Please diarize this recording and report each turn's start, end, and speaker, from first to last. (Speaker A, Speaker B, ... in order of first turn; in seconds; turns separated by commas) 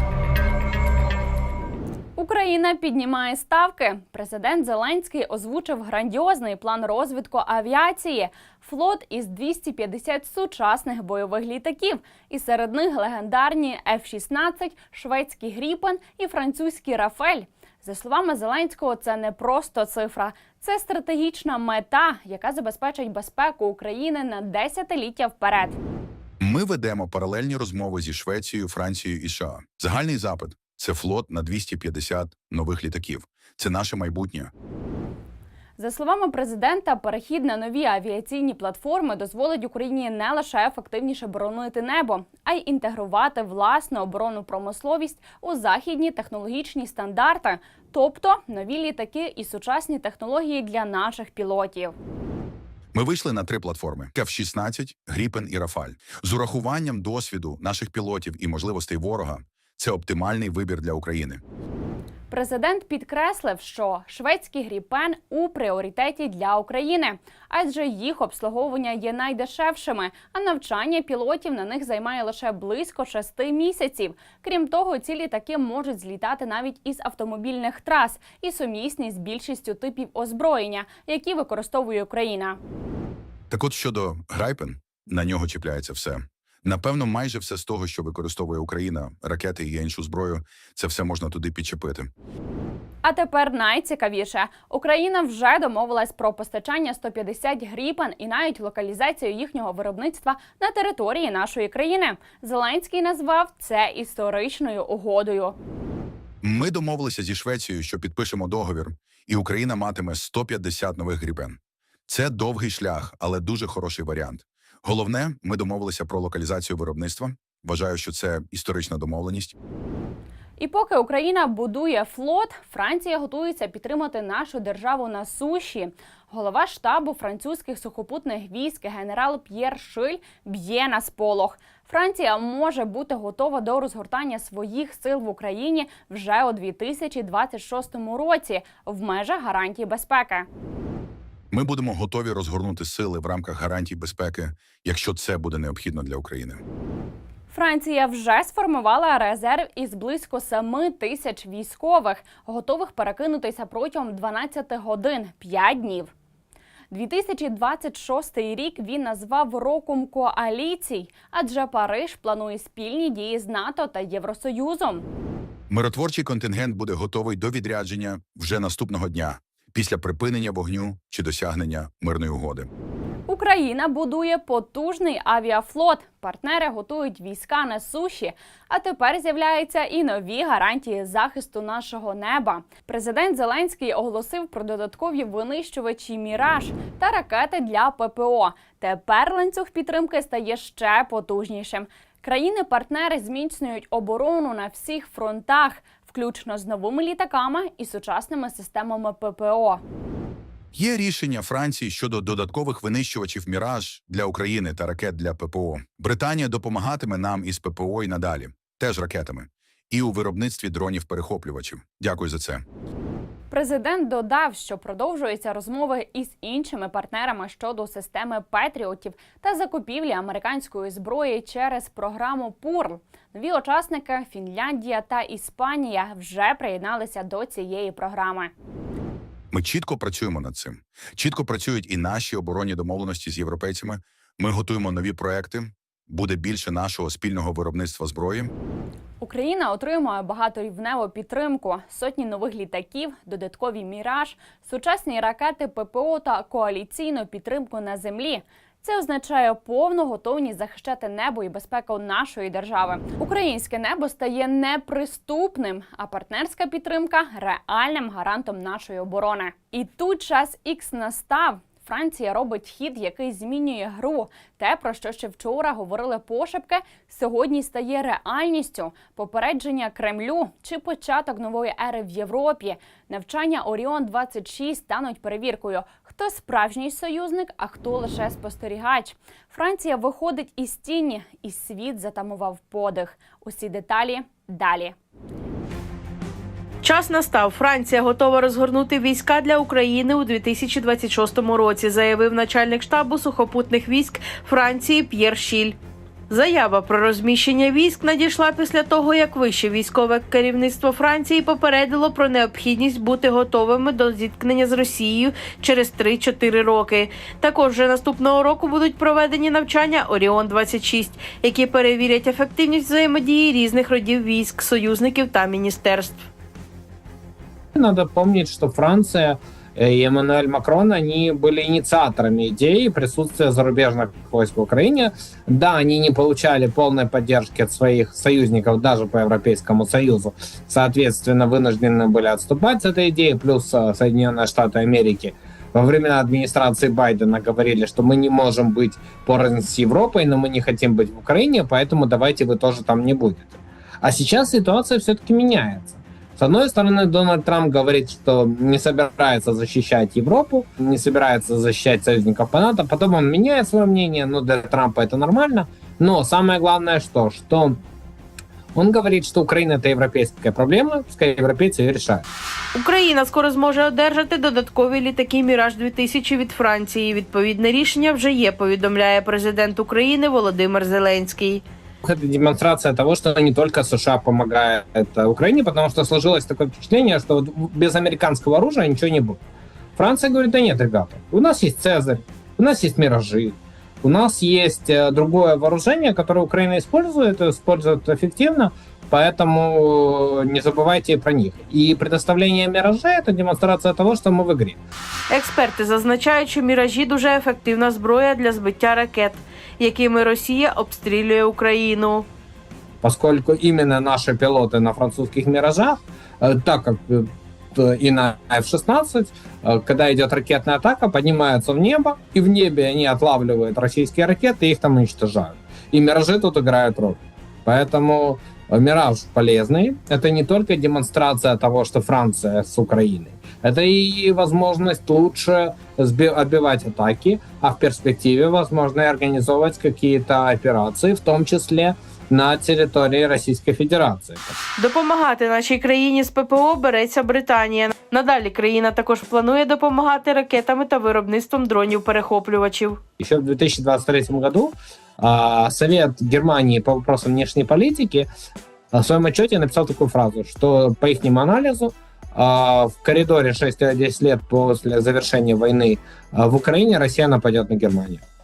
Speaker A: 2.1-25.8, Speaker B: 26.4-34.5, Speaker A: 35.8-51.9, Speaker B: 52.9-61.4, Speaker A: 62.3-82.6, Speaker B: 83.5-92.1, Speaker A: 93.0-105.6, Speaker B: 106.4-119.5, Speaker A: 120.6-140.4, Speaker B: 141.5-146.6, Speaker A: 147.5-156.1, Speaker A: 156.9-165.1, Speaker B: 165.7-172.7, Speaker A: 173.3-199.8, Speaker B: 200.7-212.6, Speaker A: 213.5-228.5, Speaker B: 229.5-238.5, Speaker A: 239.2-284.9, Speaker C: 286.8-295.8, Speaker C: 296.3-316.2, Speaker D: 317.7-357.8, Speaker D: 358.7-362.3, Speaker C: 362.7-371.6, Speaker D: 372.0-379.4, Speaker D: 380.0-394.8, Speaker C: 395.3-402.3, Speaker D: 403.0-434.6, Speaker C: 434.8-443.0, Speaker D: 443.2-448.3, Speaker D: 448.9-458.2